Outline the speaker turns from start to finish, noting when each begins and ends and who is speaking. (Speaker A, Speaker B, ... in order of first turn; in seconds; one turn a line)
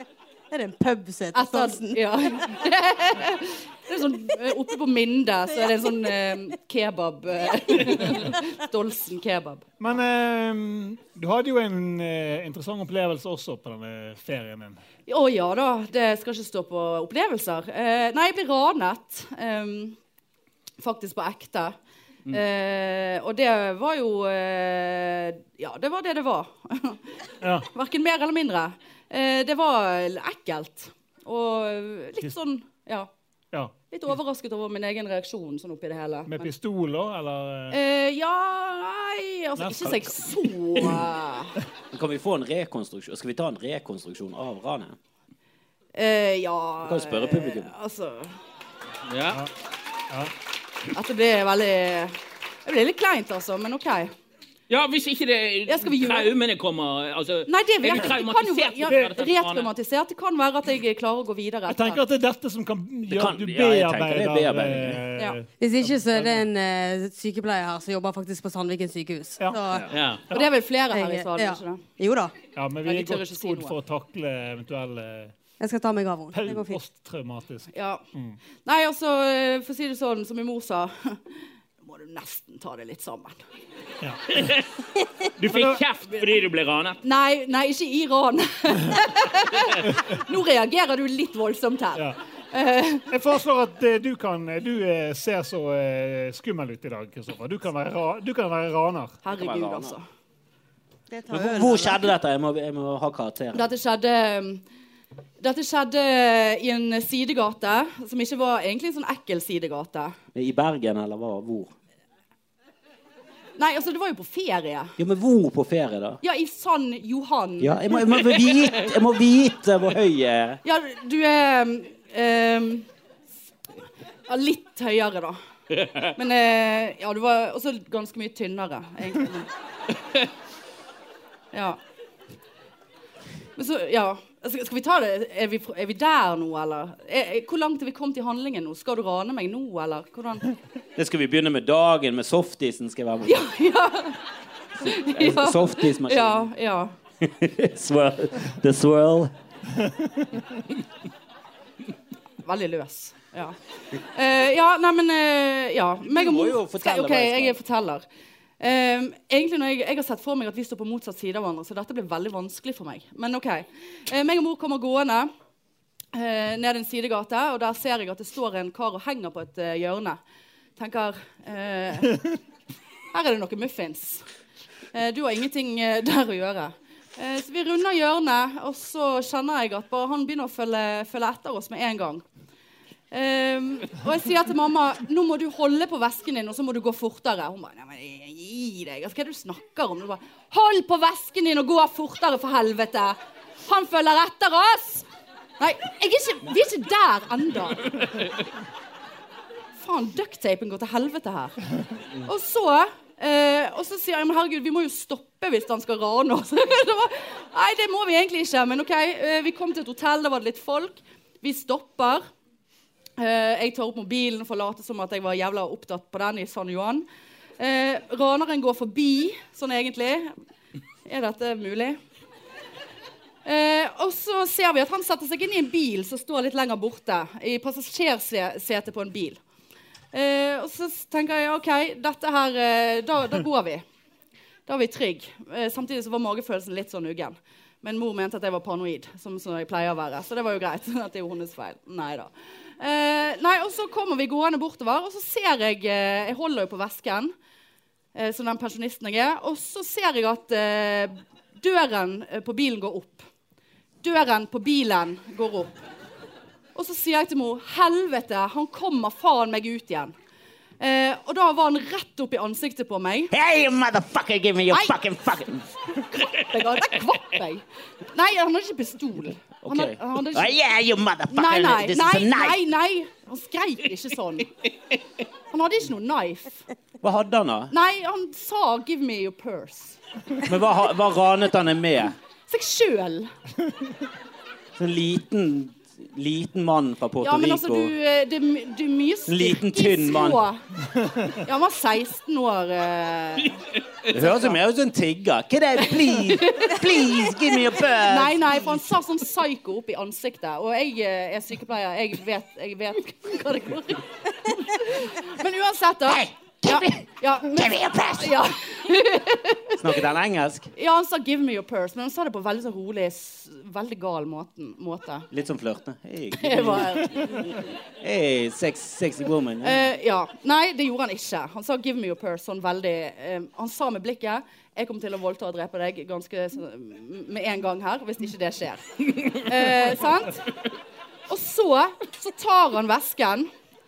Speaker A: 0.5-2.6
Speaker B: 1.3-9.7
Speaker C: 9.8-14.8
Speaker B: 15.1-20.0
Speaker B: 20.8-21.8
Speaker B: 22.3-27.1
Speaker C: 27.4-27.7
Speaker B: 27.6-33.1
Speaker B: 33.9-36.5
Speaker C: 36.3-37.8
Speaker B: 37.7-41.6
Speaker C: 39.6-40.3
Speaker D: 41.9-45.0
Speaker B: 46.0-48.4
Speaker D: 46.8-47.7
Speaker E: 49.1-49.4
Speaker B: 50.9-54.1
Speaker E: 54.7-59.7
Speaker B: 55.7-56.4
Speaker B: 57.5-62.0
Speaker C: 61.7-66.5
Speaker D: 63.1-65.0
Speaker A: 65.6-69.9
Speaker E: 69.9-70.2
Speaker B: 70.3-71.8
Speaker A: 70.9-72.3
Speaker C: 72.5-75.3
Speaker B: 72.8-73.8
Speaker A: 75.6-76.8
Speaker C: 76.3-78.4
Speaker B: 77.7-78.0
Speaker B: 78.6-81.2
Speaker B: 81.8-83.4
Speaker C: 84.0-84.4
Speaker E: 84.3-84.7
Speaker E: 85.4-87.0
Speaker C: 85.4-85.8
Speaker B: 87.0-93.1
Speaker C: 93.1-99.2
Speaker B: 99.2-100.0
Speaker D: 99.3-100.0
Speaker A: 101.1-102.0
Speaker D: 101.3-103.7
Speaker B: 103.5-104.6
Speaker B: 105.4-110.2
Speaker D: 110.3-111.7
Speaker B: 113.6-115.0
Speaker D: 115.0-116.2
Speaker B: 116.2-117.8
Speaker D: 117.6-120.6
Speaker B: 120.6-122.9
Speaker B: 124.3-125.4
Speaker E: 125.8-126.1
Speaker B: 126.1-129.5
Speaker B: 131.5-131.8
Speaker B: 133.6-140.5
Speaker D: 141.0-143.4
Speaker B: 143.2-144.2
Speaker B: 144.8-146.9
Speaker D: 144.9-146.5
Speaker D: 147.2-149.3
Speaker B: 152.4-158.1
Speaker D: 156.1-157.6
Speaker B: 158.6-165.3
Speaker B: 166.1-170.2
Speaker B: 170.8-172.3
Speaker B: 173.1-174.3
Speaker B: 174.9-182.2
Speaker B: 183.1-195.1
Speaker B: 195.6-198.2
Speaker B: 199.8-201.6
Speaker B: 202.2-212.3
Speaker B: 213.2-217.1
Speaker B: 217.6-220.3
Speaker B: 221.1-222.0
Speaker B: 223.4-229.4
Speaker B: 230.1-233.8
Speaker B: 234.7-247.3
Speaker B: 248.1-253.3
Speaker B: 254.0-255.8
Speaker B: 256.8-260.1
Speaker B: 260.8-263.3
Speaker D: 263.3-265.7
Speaker B: 264.7-265.0
Speaker B: 265.9-270.6
Speaker D: 269.6-272.6
Speaker B: 271.3-274.5
Speaker B: 275.5-276.7
Speaker D: 277.0-277.7
Speaker B: 277.7-280.0
Speaker D: 280.4-282.2
Speaker B: 282.5-283.3
Speaker D: 284.8-287.9
Speaker B: 287.2-290.6
Speaker D: 289.3-290.5
Speaker B: 291.3-293.6
Speaker D: 294.1-298.8
Speaker B: 296.0-310.0
Speaker D: 306.1-308.4
Speaker D: 309.8-310.7
Speaker B: 310.8-315.3
Speaker D: 315.3-317.3
Speaker B: 316.4-317.7
Speaker D: 318.0-319.8
Speaker B: 319.6-330.5
Speaker B: 331.3-333.5